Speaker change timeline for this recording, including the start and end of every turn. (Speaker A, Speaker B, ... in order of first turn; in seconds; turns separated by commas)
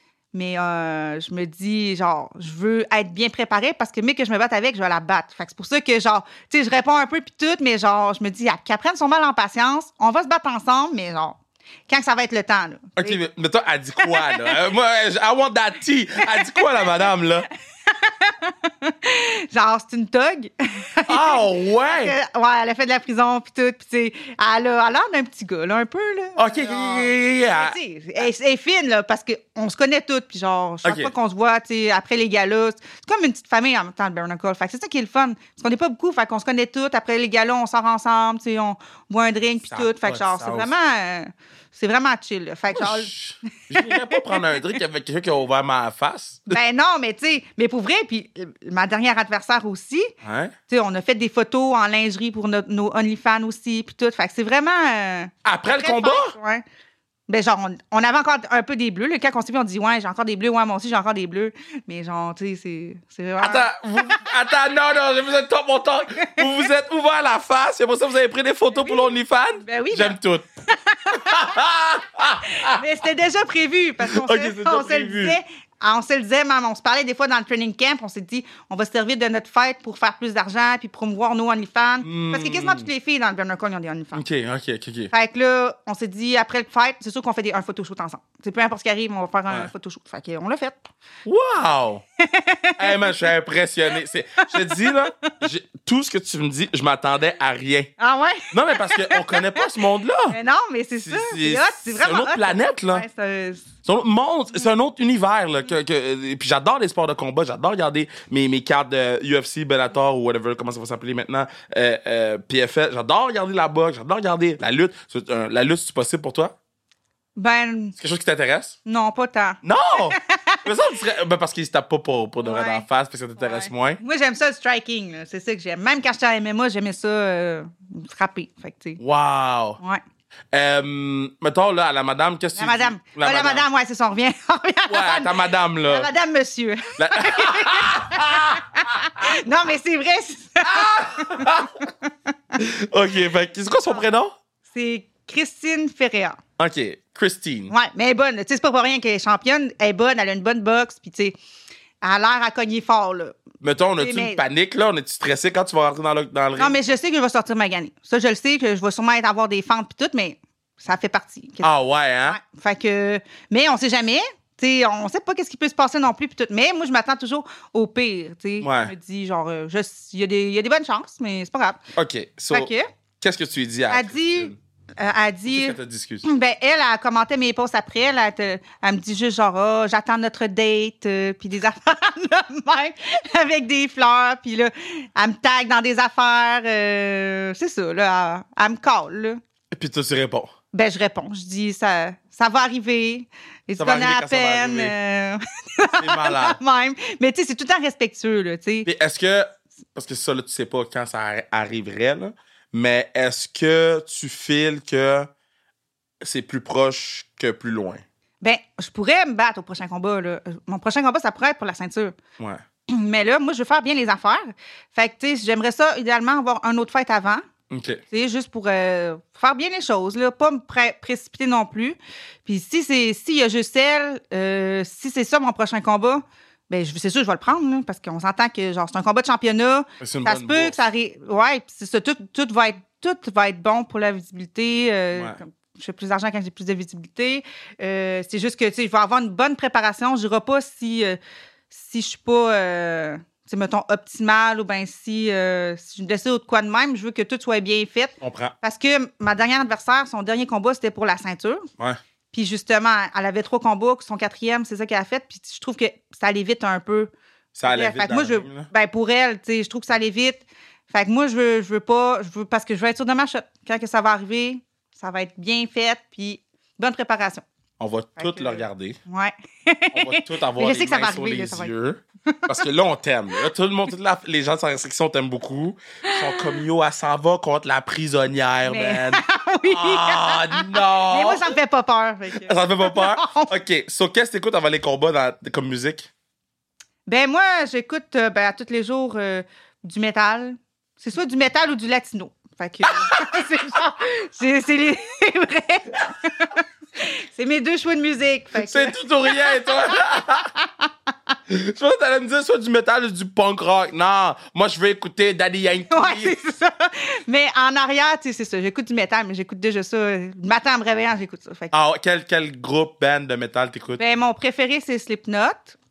Speaker A: 0.3-13.2, Speaker B: 13.0-17.5, Speaker A: 14.0-14.6, Speaker A: 16.2-16.8, Speaker A: 17.9-43.1, Speaker B: 21.1-22.1, Speaker B: 26.4-27.8, Speaker B: 30.8-31.1, Speaker B: 39.7-40.7, Speaker B: 42.7-46.6, Speaker A: 43.7-44.4, Speaker A: 46.5-50.1, Speaker B: 50.2-50.5, Speaker A: 50.7-56.6, Speaker B: 55.4-56.3, Speaker A: 57.3-64.2, Speaker B: 63.4-70.5, Speaker A: 66.2-66.5, Speaker A: 68.7-71.5, Speaker B: 71.1-72.8, Speaker A: 72.5-84.2, Speaker B: 74.0-75.4, Speaker B: 82.0-82.9, Speaker B: 84.1-85.1, Speaker A: 85.1-90.8, Speaker B: 91.2-92.0, Speaker A: 92.2-93.2, Speaker B: 92.8-97.9, Speaker A: 94.4-95.3, Speaker A: 98.0-99.7, Speaker B: 98.5-100.4, Speaker A: 100.3-103.7, Speaker B: 101.0-103.0, Speaker B: 103.8-116.5, Speaker A: 117.3-118.0, Speaker B: 118.0-118.8, Speaker A: 118.8-120.7, Speaker B: 119.6-124.0, Speaker A: 122.4-122.8, Speaker A: 123.4-129.0, Speaker B: 129.0-129.8, Speaker B: 130.5-133.7, Speaker A: 132.6-142.1, Speaker B: 134.9-136.1, Speaker B: 137.0-139.3, Speaker B: 140.6-141.7, Speaker B: 142.6-144.3, Speaker A: 144.7-146.4, Speaker B: 146.6-147.7, Speaker A: 147.7-151.3, Speaker A: 152.0-153.4, Speaker B: 153.6-156.9, Speaker A: 154.0-154.4, Speaker A: 156.6-161.7, Speaker B: 161.6-162.4, Speaker A: 162.2-171.8, Speaker B: 168.6-168.9, Speaker B: 171.9-174.6, Speaker A: 172.5-172.9, Speaker A: 173.9-189.4, Speaker B: 175.5-176.2, Speaker B: 189.7-190.5, Speaker A: 190.7-198.9, Speaker B: 193.8-194.9, Speaker B: 196.0-196.6, Speaker B: 198.8-205.3, Speaker B: 206.2-208.0, Speaker A: 208.4-212.2, Speaker A: 212.9-217.4, Speaker B: 217.7-218.0, Speaker A: 218.1-241.2, Speaker B: 230.0-230.8, Speaker A: 241.7-251.7, Speaker B: 248.2-248.5, Speaker A: 252.3-257.1, Speaker B: 257.5-258.7, Speaker A: 257.6-267.4, Speaker B: 267.8-269.0, Speaker A: 268.2-271.7, Speaker B: 269.9-281.5, Speaker A: 272.3-272.5, Speaker A: 276.1-276.6, Speaker A: 278.6-283.5, Speaker B: 282.4-286.1, Speaker A: 287.1-300.9, Speaker B: 292.9-293.5, Speaker B: 298.6-300.5, Speaker B: 301.5-306.4, Speaker A: 305.9-311.7, Speaker B: 311.7-314.0, Speaker A: 314.0-315.8